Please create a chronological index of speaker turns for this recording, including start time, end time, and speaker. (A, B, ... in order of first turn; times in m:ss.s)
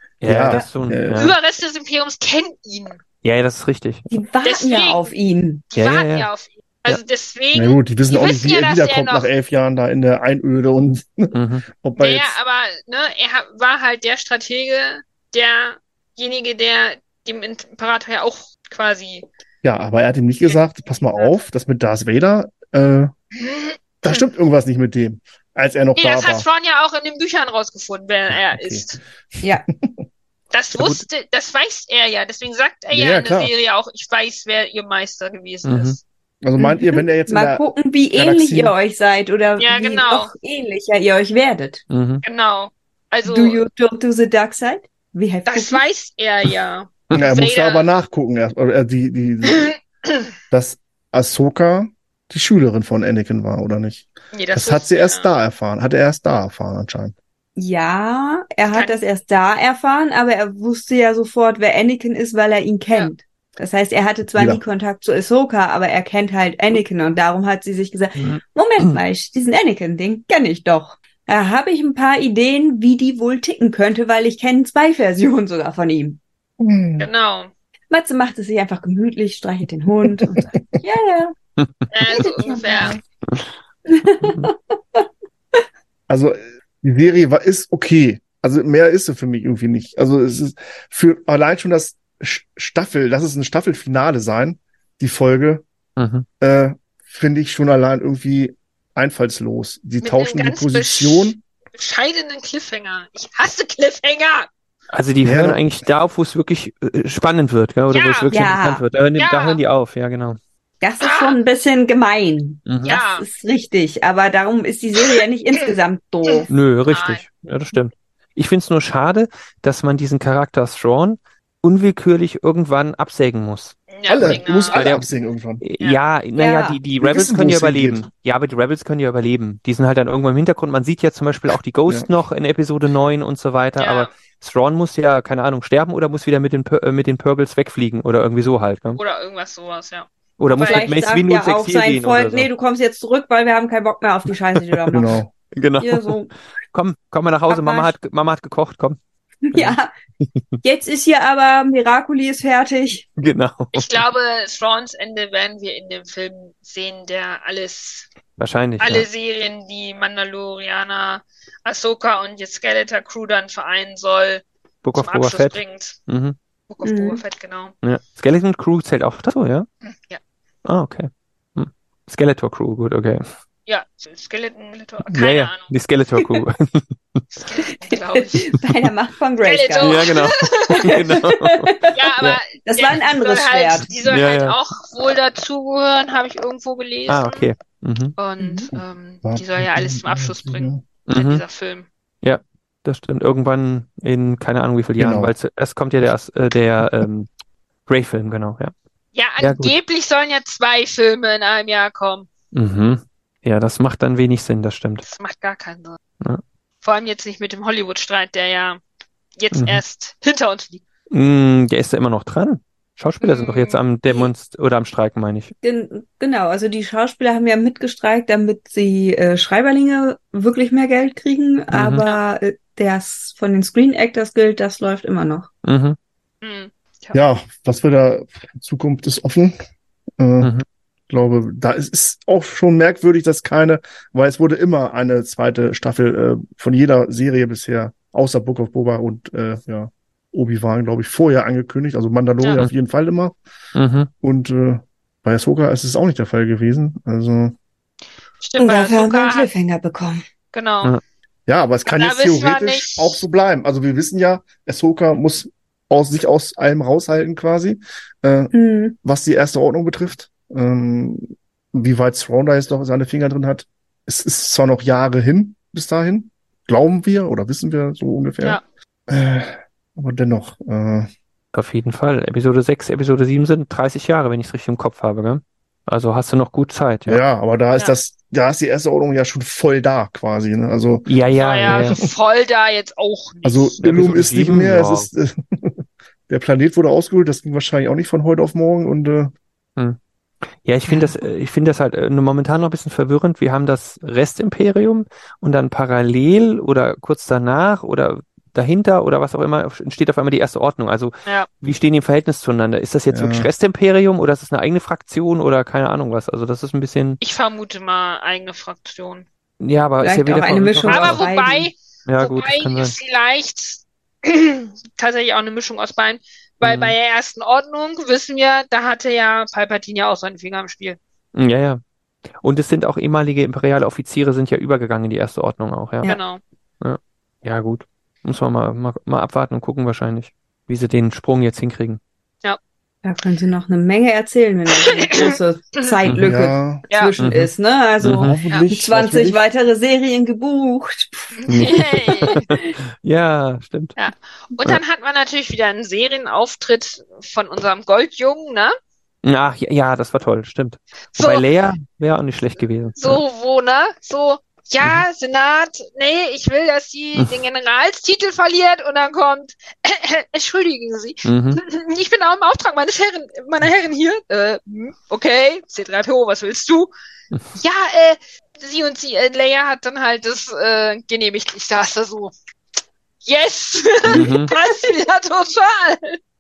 0:00.2-0:01.4 A
0:00.2-0:01.3 B
0:01.2-0:03.0 C
0:03.2-0:04.1 A
0:04.1-0:05.6 D
0:04.4-0:05.1 C
0:05.7-0:09.3 C
0:05.8-0:06.3 A
0:07.5-0:12.4 B
0:11.3-0:11.6 A
0:12.0-0:19.3 C
0:19.6-0:23.1 B
0:20.5-0:21.3 C
0:23.4-0:24.2 C
0:24.0-0:26.4 B
0:26.0-0:29.0 C
0:28.3-0:30.0 B
0:30.5-0:36.0 C
0:30.8-0:31.0 B
0:32.9-0:33.5 B
0:35.6-0:36.0 A
0:36.4-0:38.7 B
0:36.6-0:41.8 D
0:39.6-0:40.3 C
0:41.9-0:42.2 A
0:42.2-0:43.6 C
0:43.2-0:45.8 D
0:45.5-0:47.9 C
0:47.1-0:49.8 B
0:49.5-0:50.3 C
0:50.5-0:57.1 B
0:54.3-0:55.3 C
0:57.6-1:16.2 D
0:58.7-0:59.0 C
1:04.4-1:04.6 B
1:16.6-1:17.1 B
1:17.0-1:17.5 C
1:17.9-1:21.4 D
1:20.4-1:20.6 B
1:21.9-1:23.0 C
1:22.2-1:23.0 D
1:23.9-1:25.1 D
1:24.2-1:24.5 A
1:26.1-1:35.6 B
1:36.0-1:36.3 A
1:36.4-1:41.4 B
1:40.0-1:44.5 C
1:44.9-1:50.4 A
1:45.2-1:45.6 B
1:47.9-1:48.3 C
1:48.3-1:48.8 D
1:49.2-1:49.6 C
1:50.8-1:56.5 D
1:51.0-1:51.4 C
1:52.7-1:53.0 A
1:52.8-1:53.3 C
1:56.3-1:57.2 C
1:56.5-2:05.1 A
2:03.9-2:05.0 C
2:04.1-2:05.6 B
2:05.6-2:19.0 A
2:06.4-2:06.8 D
2:07.0-2:08.1 B
2:13.8-2:14.1 C
2:19.0-2:20.9 C
2:20.4-2:22.5 A
2:20.6-2:25.2 D
2:24.6-2:24.9 A
2:24.9-2:25.3 B
2:25.5-2:26.2 A
2:25.8-2:26.3 D
2:26.7-2:29.0 A
2:27.5-2:27.9 D
2:29.5-2:29.9 D
2:29.5-2:30.4 A
2:30.6-2:33.0 D
2:33.2-2:34.0 A
2:33.7-2:38.1 C
2:38.4-2:39.1 A
2:38.8-2:44.4 C
2:44.8-2:46.4 A
2:45.0-2:46.0 C
2:46.7-2:47.7 C
2:46.8-2:47.2 D
2:47.8-2:49.7 A
2:50.6-2:53.2 A
2:53.7-2:55.7 C
2:55.1-2:57.3 A
2:57.4-2:58.6 C
2:57.6-3:02.0 D
2:59.4-3:01.0 C
2:59.8-3:02.4 A
3:01.9-3:07.5 C
3:02.6-3:03.9 D
3:04.0-3:04.6 A
3:07.1-3:08.2 A
3:08.2-3:11.9 C
3:08.4-3:08.7 D
3:09.2-3:10.8 B
3:11.1-3:11.4 A
3:12.2-3:17.3 A
3:15.0-3:15.3 B
3:17.9-3:18.7 A
3:19.2-3:22.3 C
3:19.4-3:19.7 A
3:22.5-3:25.0 A
3:25.0-3:26.0 C
3:26.8-3:28.8 C
3:29.4-3:30.8 C
3:29.5-3:29.8 A
3:31.1-3:35.5 A
3:33.2-3:33.8 C
3:35.6-3:45.5 D
3:41.7-3:42.1 A
3:45.6-3:46.0 A
3:46.4-3:47.2 C
3:47.1-3:49.6 B
3:50.2-3:50.5 B
3:50.4-3:50.6 A
3:51.1-4:03.4 B
4:03.8-4:04.1 A
4:04.2-4:07.6 B
4:08.4-4:09.5 C
4:08.6-4:10.2 D
4:10.5-4:11.0 C
4:11.5-4:31.1 B
4:11.9-4:13.2 C
4:18.5-4:19.0 D
4:31.5-4:37.2 A
4:37.1-4:41.1 B
4:41.1-4:42.0 A
4:41.3-4:43.8 C
4:41.7-4:42.1 B
4:43.4-4:49.3 B
4:43.8-4:45.1 A
4:50.6-5:07.2 A
5:03.1-5:03.5 B
5:07.2-5:09.3 C
5:09.6-5:11.2 A
5:10.0-5:11.7 D
5:10.9-5:21.0 C
5:12.1-5:13.0 A
5:16.6-5:17.0 A
5:21.4-5:21.8 A
5:22.4-5:26.1 A
5:26.0-5:26.4 C
5:26.8-5:32.0 A
5:33.0-5:41.7 D
5:34.8-5:35.8 C
5:36.1-5:36.3 A
5:36.2-5:36.9 B
5:37.2-5:38.4 A
5:38.2-5:39.4 B
5:41.4-5:42.4 C
5:41.5-5:44.0 A
5:42.2-5:42.7 D
5:44.0-5:48.7 C
5:49.2-5:53.2 A
5:51.2-5:51.4 C
5:53.0-6:06.9 C
6:01.2-6:01.6 A
6:07.6-6:12.3 C
6:13.2-6:16.2 C
6:14.1-6:14.5 A
6:14.2-6:14.7 D